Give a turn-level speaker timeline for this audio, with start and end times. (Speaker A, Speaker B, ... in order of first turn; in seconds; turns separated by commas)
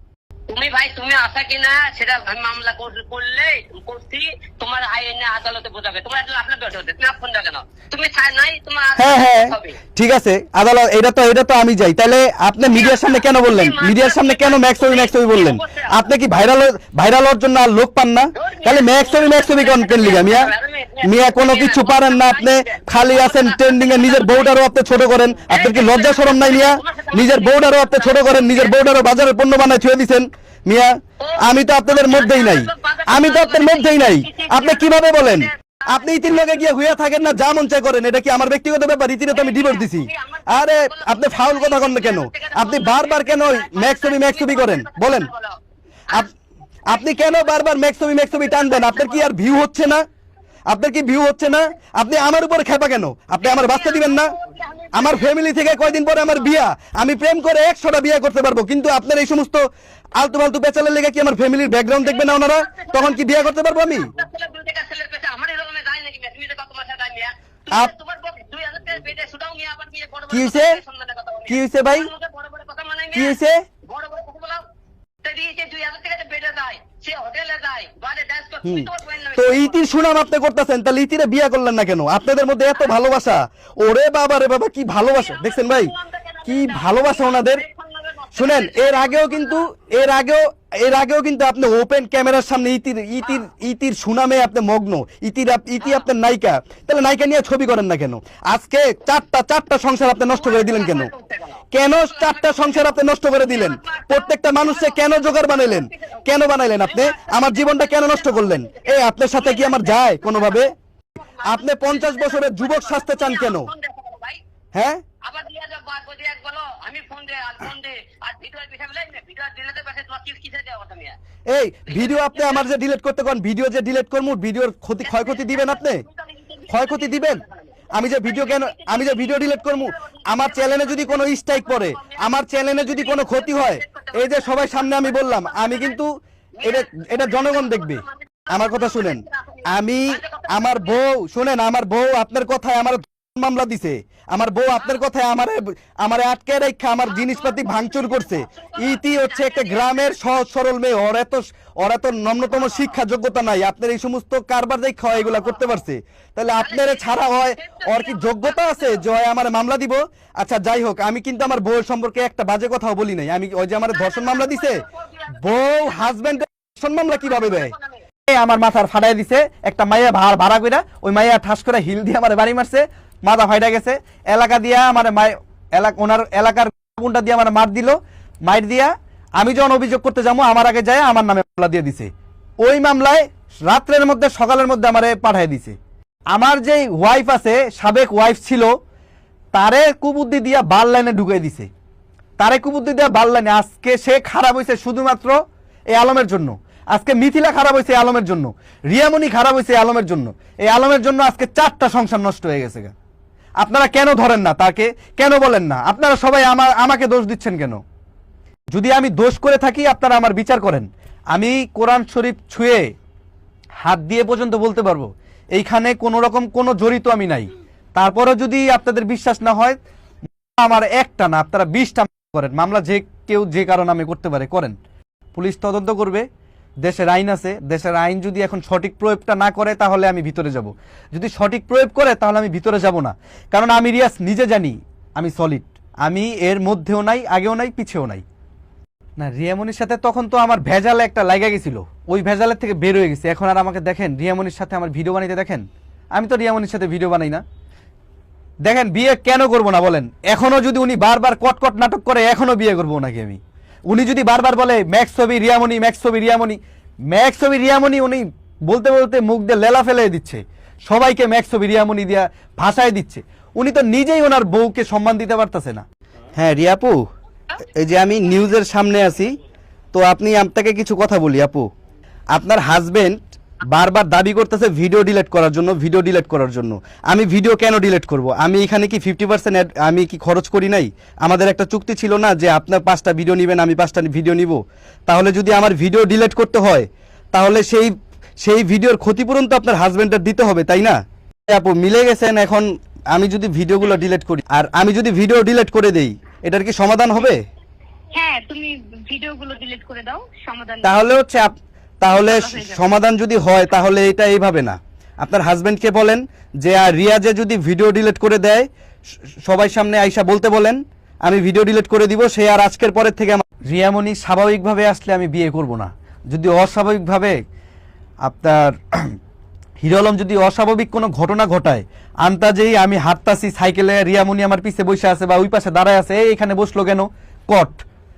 Speaker A: 0.5-9.8, Speaker B: 9.0-20.5, Speaker A: 12.7-16.1, Speaker A: 18.4-24.6, Speaker B: 21.0-45.3, Speaker A: 25.5-28.8, Speaker A: 31.2-36.6, Speaker A: 39.3-45.6, Speaker B: 46.9-50.0, Speaker A: 46.9-47.6, Speaker A: 48.3-49.3, Speaker B: 50.7-54.3, Speaker A: 53.4-56.6, Speaker B: 54.9-59.6, Speaker B: 60.2-64.1, Speaker A: 62.0-74.6, Speaker B: 70.3-70.8, Speaker B: 71.5-72.1, Speaker B: 73.1-73.6, Speaker A: 75.2-79.8, Speaker B: 78.6-85.9, Speaker A: 82.7-83.0, Speaker A: 85.0-89.7, Speaker B: 86.4-87.6, Speaker B: 88.3-101.1, Speaker A: 95.8-96.1, Speaker A: 100.2-102.9, Speaker B: 101.7-110.7, Speaker A: 103.4-110.7, Speaker A: 111.2-114.4, Speaker B: 111.4-113.7, Speaker B: 114.7-115.0, Speaker A: 115.2-121.2, Speaker B: 121.5-126.0, Speaker A: 121.9-122.7, Speaker A: 125.0-136.0, Speaker B: 126.7-127.4, Speaker B: 127.9-167.7, Speaker A: 136.6-140.9, Speaker A: 144.8-145.0, Speaker A: 147.1-150.2, Speaker A: 152.5-152.9, Speaker A: 156.6-159.0, Speaker A: 163.9-166.1, Speaker A: 167.2-168.0, Speaker B: 168.2-182.1, Speaker B: 182.6-185.8, Speaker B: 186.3-188.7, Speaker B: 189.5-191.7, Speaker B: 192.4-195.4, Speaker B: 195.9-202.9, Speaker B: 203.6-207.8, Speaker B: 208.7-212.9, Speaker B: 213.8-219.8, Speaker B: 220.6-224.8, Speaker B: 225.3-226.2, Speaker B: 226.8-238.2, Speaker B: 239.2-247.4, Speaker B: 248.6-256.6, Speaker B: 257.1-265.8, Speaker B: 266.4-267.0, Speaker B: 267.6-269.3, Speaker B: 269.9-271.7, Speaker B: 272.3-297.4, Speaker C: 298.1-300.9, Speaker B: 300.8-308.7, Speaker C: 302.2-302.8, Speaker B: 309.4-317.4, Speaker B: 318.2-319.2, Speaker B: 319.8-327.8